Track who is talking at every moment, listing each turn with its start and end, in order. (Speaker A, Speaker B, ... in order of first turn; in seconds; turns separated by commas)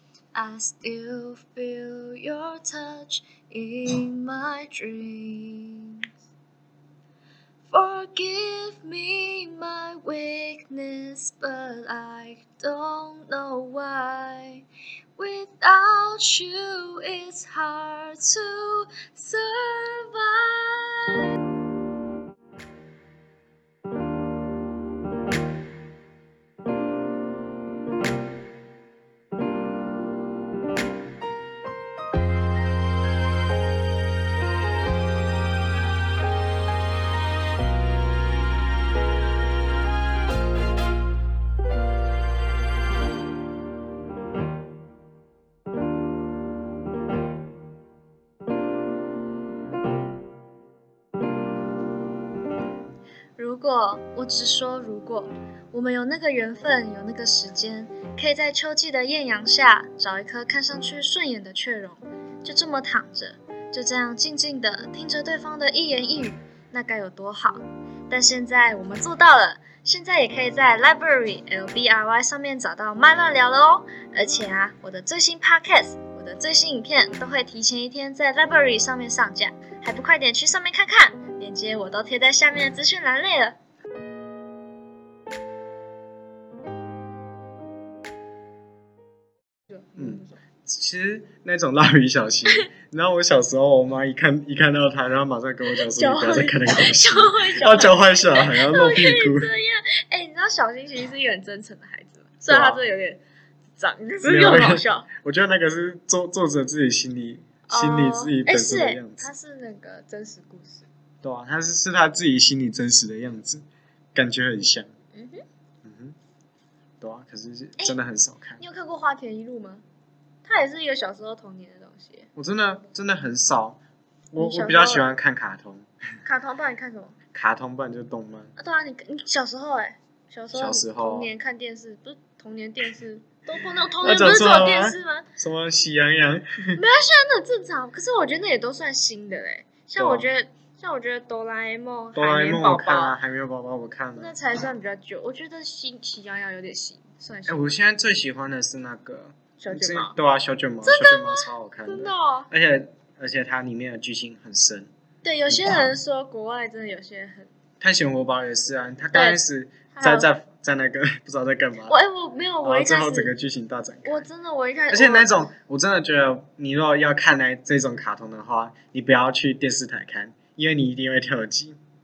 Speaker A: 0.3-6.0, Speaker A: 7.7-14.6, Speaker A: 15.2-21.2, Speaker A: 53.4-83.6, Speaker A: 89.7-90.4, Speaker B: 90.0-99.5, Speaker A: 95.7-103.2, Speaker B: 102.5-102.8, Speaker A: 103.8-105.1, Speaker B: 104.2-109.3, Speaker A: 107.7-110.8, Speaker B: 111.2-114.9, Speaker A: 115.1-115.4, Speaker B: 115.8-116.2, Speaker B: 117.0-118.6, Speaker A: 118.6-119.8, Speaker A: 120.4-122.3, Speaker B: 122.3-123.8, Speaker B: 124.3-125.9, Speaker A: 124.4-125.1, Speaker A: 126.2-127.1, Speaker B: 127.3-128.5, Speaker A: 128.6-135.3, Speaker B: 130.5-131.3, Speaker B: 134.0-136.8, Speaker A: 136.7-143.2, Speaker B: 140.0-140.3, Speaker B: 142.1-144.3, Speaker A: 144.2-147.7, Speaker B: 147.4-154.9, Speaker A: 149.6-150.1, Speaker A: 150.8-152.5, Speaker A: 155.2-157.5, Speaker B: 155.5-155.8, Speaker B: 157.8-161.9, Speaker A: 159.1-159.4, Speaker A: 159.9-160.3, Speaker A: 161.9-163.3, Speaker B: 162.6-164.2, Speaker A: 164.0-165.4, Speaker B: 164.9-171.8